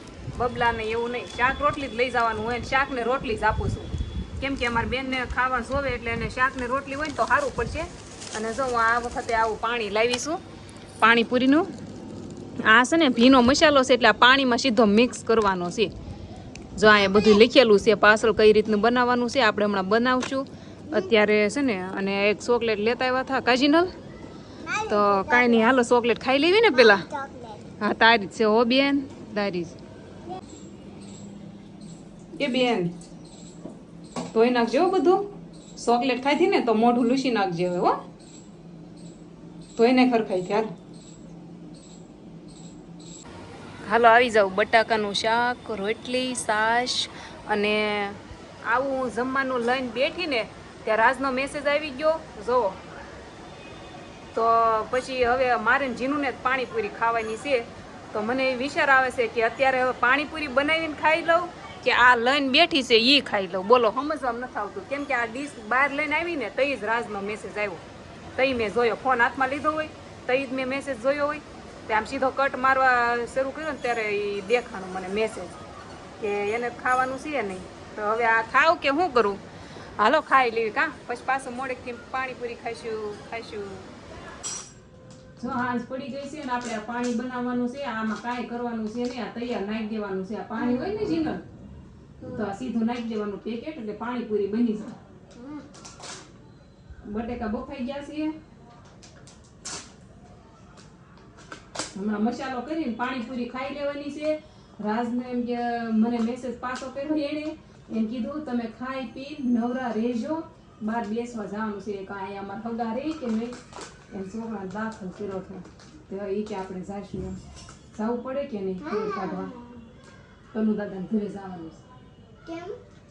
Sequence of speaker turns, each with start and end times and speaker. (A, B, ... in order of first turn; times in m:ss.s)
0:00.4-0:10.4 A
0:11.0-0:11.7 A
0:12.6-0:15.9 A
0:16.8-0:23.9 A
0:16.9-0:17.4 B
0:24.6-0:25.8 B
0:24.9-0:27.0 A
0:26.7-0:27.6 B
0:27.8-0:29.8 A
0:32.4-0:32.9 A
0:34.3-0:35.3 A
0:35.8-0:38.0 A
0:39.8-0:40.7 A
0:43.8-0:52.8 A
0:54.3-1:07.8 A
1:08.4-1:15.6 A
1:16.2-1:19.4 A
1:20.0-1:23.9 A
1:25.4-1:31.4 A
1:30.6-1:31.2 B
1:32.2-1:32.5 B
1:32.3-1:35.0 A
1:35.4-1:35.7 B
1:37.1-1:38.4 A
1:42.0-1:53.5 A
1:54.1-1:57.4 A
1:57.9-1:59.5 A
1:58.8-1:59.8 B
2:00.5-2:01.8 A
2:02.4-2:02.8 B